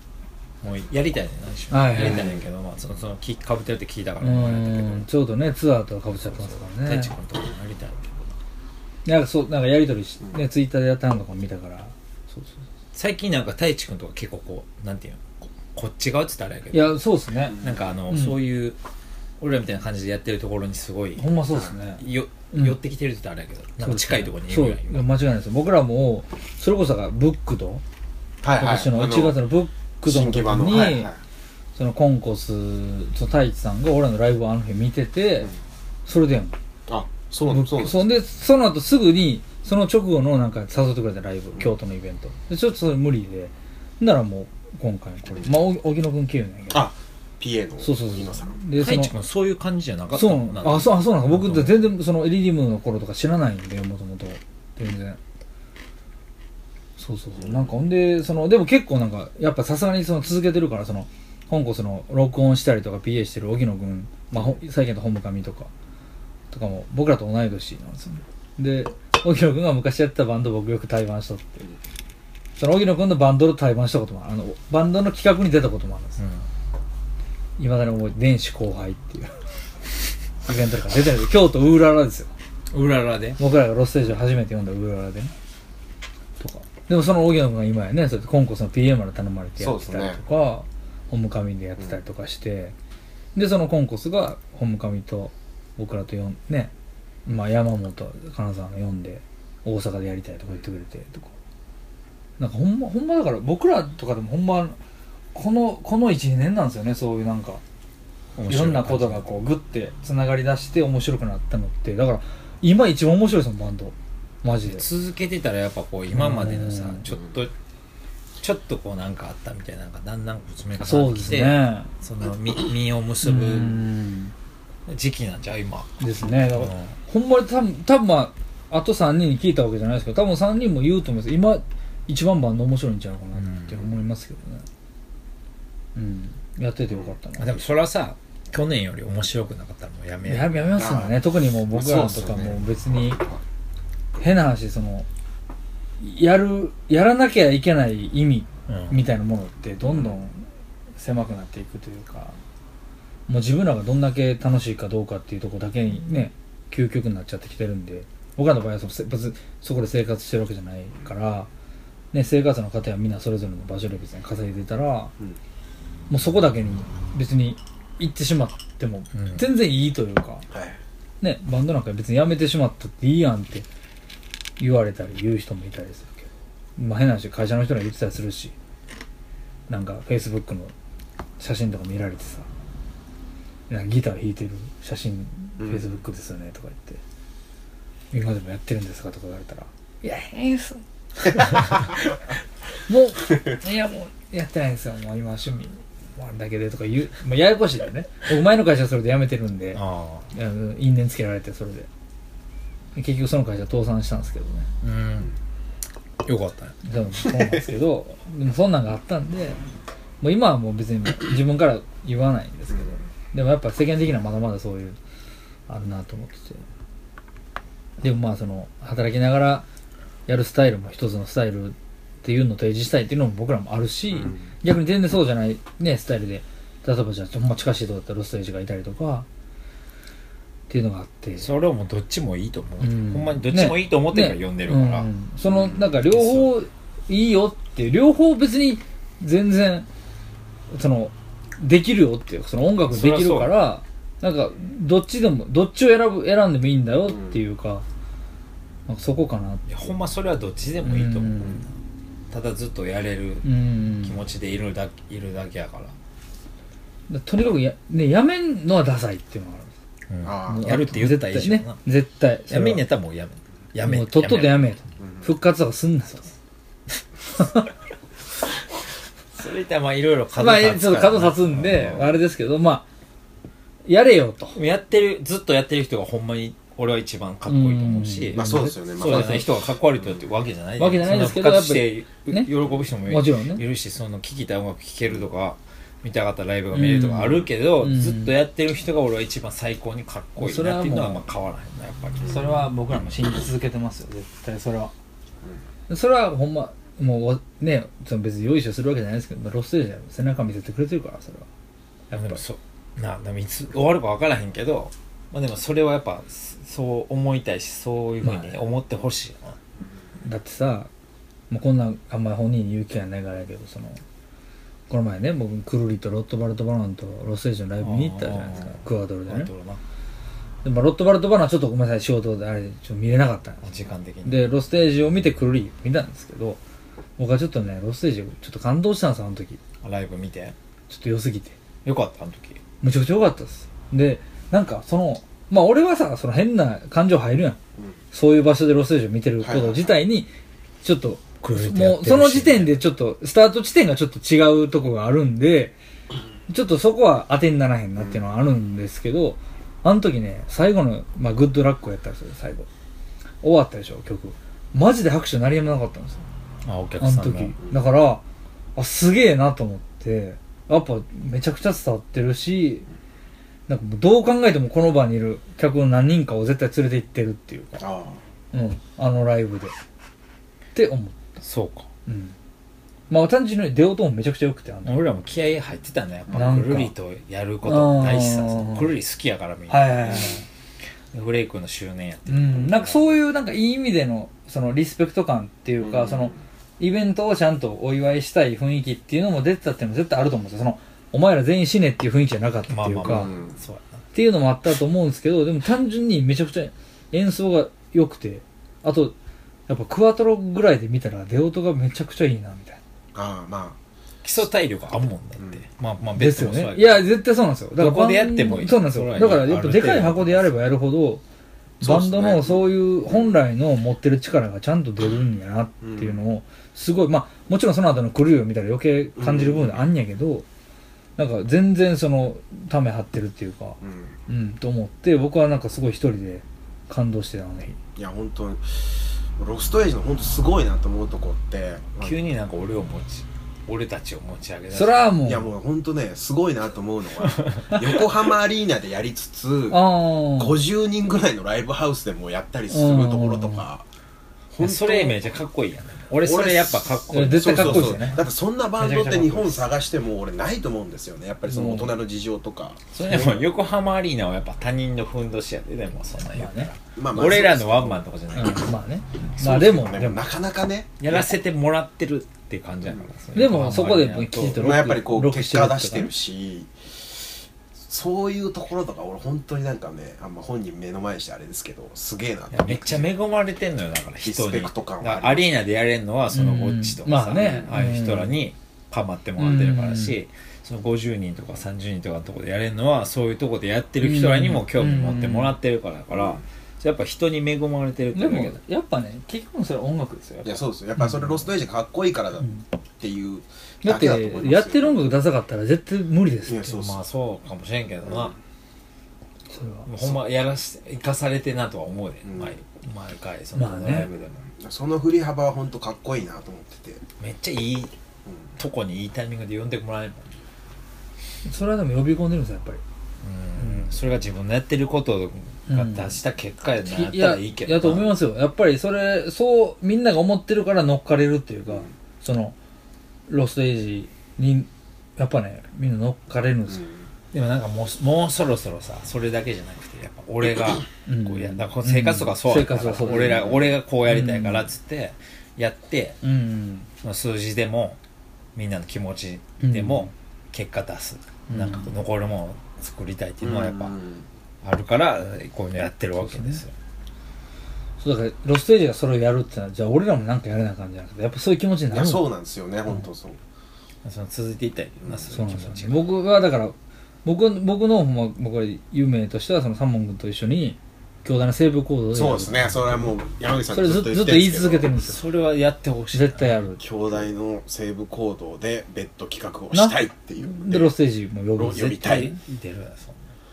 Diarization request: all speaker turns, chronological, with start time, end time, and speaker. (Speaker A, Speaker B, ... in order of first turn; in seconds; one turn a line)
Speaker A: 0.6-5.0
Speaker B: 1.7-2.4
Speaker C: 2.0-2.4
Speaker B: 4.2-7.1
Speaker A: 6.3-8.3
Speaker B: 9.0-12.5
Speaker A: 12.9-15.2
Speaker A: 15.7-18.8
Speaker B: 16.7-18.4
Speaker C: 17.5-17.9
Speaker A: 19.4-21.2
Speaker B: 21.1-22.8
Speaker A: 22.0-25.1
Speaker B: 23.8-27.8
Speaker C: 28.4-29.4
Speaker B: 28.6-31.1
Speaker C: 30.0-31.2
Speaker B: 31.8-35.5
Speaker B: 36.0-36.5
Speaker C: 36.9-38.1
Speaker B: 37.5-46.9
Speaker C: 46.7-48.6
Speaker B: 47.8-49.1
Speaker A: 48.8-51.9
Speaker B: 50.1-55.2
Speaker B: 57.0-65.7
Speaker C: 57.4-57.7
Speaker B: 66.5-71.6
Speaker B: 72.6-76.2
Speaker A: 76.2-76.4
Speaker B: 77.6-79.4
Speaker B: 80.4-82.3
Speaker A: 82.7-83.4
Speaker B: 83.4-85.3
Speaker B: 86.4-92.7
Speaker C: 89.6-90.2
Speaker B: 93.3-96.7
Speaker B: 97.2-101.3
Speaker B: 102.4-104.8
Speaker B: 105.3-107.6
Speaker A: 108.3-109.2
Speaker B: 108.5-114.8
Speaker A: 114.6-117.5
Speaker B: 116.1-117.1
Speaker A: 118.4-123.8
Speaker B: 120.8-121.9
Speaker B: 123.2-124.3
Speaker A: 124.9-125.9
Speaker B: 126.0-134.6
Speaker A: 126.5-126.9
Speaker A: 133.3-133.9
Speaker B: 135.9-137.6
Speaker A: 137.4-140.7
Speaker B: 140.2-143.2
Speaker C: 140.8-143.4
Speaker B: 144.2-145.1
Speaker B: 146.0-152.4
Speaker A: 148.7-149.0
Speaker C: 149.9-150.2
Speaker B: 153.3-161.5
Speaker B: 162.1-165.1
Speaker B: 166.1-170.5
Speaker A: 169.1-169.4
Speaker C: 170.5-170.8
Speaker B: 171.2-173.7
Speaker B: 174.6-178.5
Speaker B: 179.7-180.7
Speaker B: 181.4-182.5
Speaker B: 183.7-187.0
Speaker B: 188.1-191.9
Speaker B: 192.9-201.9
Speaker A: 199.7-200.3
Speaker B: 202.9-204.7
Speaker A: 204.8-205.3
Speaker A: 206.2-206.7
Speaker B: 206.8-209.6
Speaker B: 210.2-215.0
Speaker B: 215.7-216.6
Speaker B: 218.0-219.6
Speaker B: 220.3-229.2
Speaker B: 230.7-231.5
Speaker A: 231.4-235.1
Speaker B: 232.8-239.9
Speaker A: 236.1-236.5
Speaker B: 240.7-247.8
Speaker A: 242.9-243.6
Speaker B: 248.9-249.7
Speaker A: 249.7-251.7
Speaker B: 250.8-251.7
Speaker A: 252.3-255.9
Speaker B: 253.4-254.2
Speaker B: 257.1-259.7
Speaker A: 260.1-261.8
Speaker C: 260.2-260.7
Speaker B: 260.4-262.8
Speaker A: 262.5-264.7
Speaker B: 263.8-266.3
Speaker C: 265.0-265.2
Speaker A: 269.4-272.1
Speaker B: 270.4-272.8
Speaker B: 273.9-274.6
Speaker A: 274.5-292.5
Speaker B: 277.5-279.4
Speaker C: 278.3-279.5
Speaker B: 280.8-282.5
Speaker B: 283.1-283.6
Speaker B: 286.7-288.3
Speaker B: 290.4-291.2
Speaker C: 292.2-292.5
Speaker B: 292.3-294.9
Speaker B: 295.9-301.4
Speaker A: 302.1-309.6
Speaker B: 308.2-308.6
Speaker B: 310.2-310.9
Speaker B: 311.5-314.0
Speaker B: 314.9-319.5
Speaker A: 317.8-319.8
Speaker B: 320.6-323.6
Speaker A: 323.6-324.4
Speaker B: 324.2-326.6
Speaker B: 327.2-329.6
Speaker A: 329.8-330.5
Speaker B: 330.9-331.6
Speaker A: 331.8-332.6
Speaker B: 332.8-337.6
Speaker B: 338.1-340.3
Speaker C: 339.4-339.9
Speaker B: 340.8-345.7
Speaker A: 341.4-342.8
Speaker B: 346.5-352.7
Speaker B: 353.4-356.3
Speaker A: 356.6-357.5
Speaker B: 357.0-358.2
Speaker B: 358.8-362.9
Speaker B: 363.7-367.8
Speaker C: 367.8-368.2
Speaker B: 368.5-369.7
Speaker B: 370.7-371.2
Speaker A: 371.4-371.9
Speaker B: 372.1-372.3
Speaker B: 373.1-375.1
Speaker A: 374.8-380.4
Speaker B: 376.3-376.9
Speaker B: 377.6-378.9
Speaker B: 379.7-380.4
Speaker A: 381.1-382.9
Speaker B: 382.3-393.3
Speaker C: 385.8-386.4
Speaker A: 392.7-394.0
Speaker C: 393.1-393.6
Speaker B: 394.1-399.1
Speaker B: 399.7-402.8
Speaker C: 403.1-403.8
Speaker A: 404.2-407.1
Speaker B: 406.1-411.2
Speaker A: 407.8-410.6
Speaker C: 411.8-413.4
Speaker B: 411.8-420.4
Speaker C: 415.8-416.2
Speaker C: 419.2-419.8
Speaker B: 421.1-427.8
Speaker C: 423.8-424.1
Speaker C: 427.9-432.1
Speaker A: 432.0-435.1
Speaker B: 434.7-435.5
Speaker C: 435.2-443.9
Speaker B: 439.7-440.6
Speaker B: 442.7-443.6
Speaker C: 444.5-445.2
Speaker A: 444.6-448.2
Speaker C: 446.2-453.5
Speaker B: 447.1-448.2
Speaker B: 448.8-449.7
Speaker B: 451.5-451.9
Speaker A: 452.9-458.7
Speaker B: 456.3-456.7
Speaker C: 456.9-458.0
Speaker B: 458.3-460.2
Speaker C: 459.4-461.2
Speaker A: 461.0-464.7
Speaker B: 463.3-466.1
Speaker C: 464.5-467.3
Speaker C: 467.9-473.1
Speaker A: 472.5-488.6
Speaker C: 474.2-475.5
Speaker B: 476.3-478.4
Speaker C: 477.3-477.7
Speaker B: 479.4-480.2
Speaker B: 484.0-485.5
Speaker C: 486.1-486.4
Speaker B: 488.1-491.4
Speaker C: 490.4-495.1
Speaker B: 493.8-496.8
Speaker C: 496.4-497.0
Speaker A: 496.8-498.3
Speaker B: 499.5-499.9
Speaker A: 499.8-504.4
Speaker C: 502.2-502.6
Speaker B: 503.5-504.1
Speaker C: 504.1-507.0
Speaker A: 507.2-507.9
Speaker A: 508.6-510.3
Speaker B: 511.4-512.8
Speaker A: 513.2-518.2
Speaker B: 513.6-513.9
Speaker B: 515.7-516.2
Speaker B: 516.8-522.5
Speaker B: 523.3-526.9
Speaker C: 526.7-527.0
Speaker A: 527.3-536.2
Speaker B: 531.0-533.5
Speaker C: 533.1-533.8
Speaker B: 534.0-534.7
Speaker B: 536.2-536.9
Speaker A: 537.0-538.0
Speaker A: 538.5-544.0
Speaker B: 539.6-540.1
Speaker B: 541.5-541.9
Speaker C: 543.4-544.3
Speaker A: 544.6-546.7
Speaker B: 546.1-546.6
Speaker B: 548.0-552.3
Speaker C: 551.9-553.4
Speaker A: 554.0-556.1
Speaker B: 555.3-562.9
Speaker C: 562.1-564.9
Speaker B: 563.7-565.2
Speaker A: 565.0-566.5
Speaker B: 566.1-566.8
Speaker C: 566.8-570.9
Speaker B: 569.7-572.4
Speaker C: 571.6-572.3
Speaker A: 572.3-573.2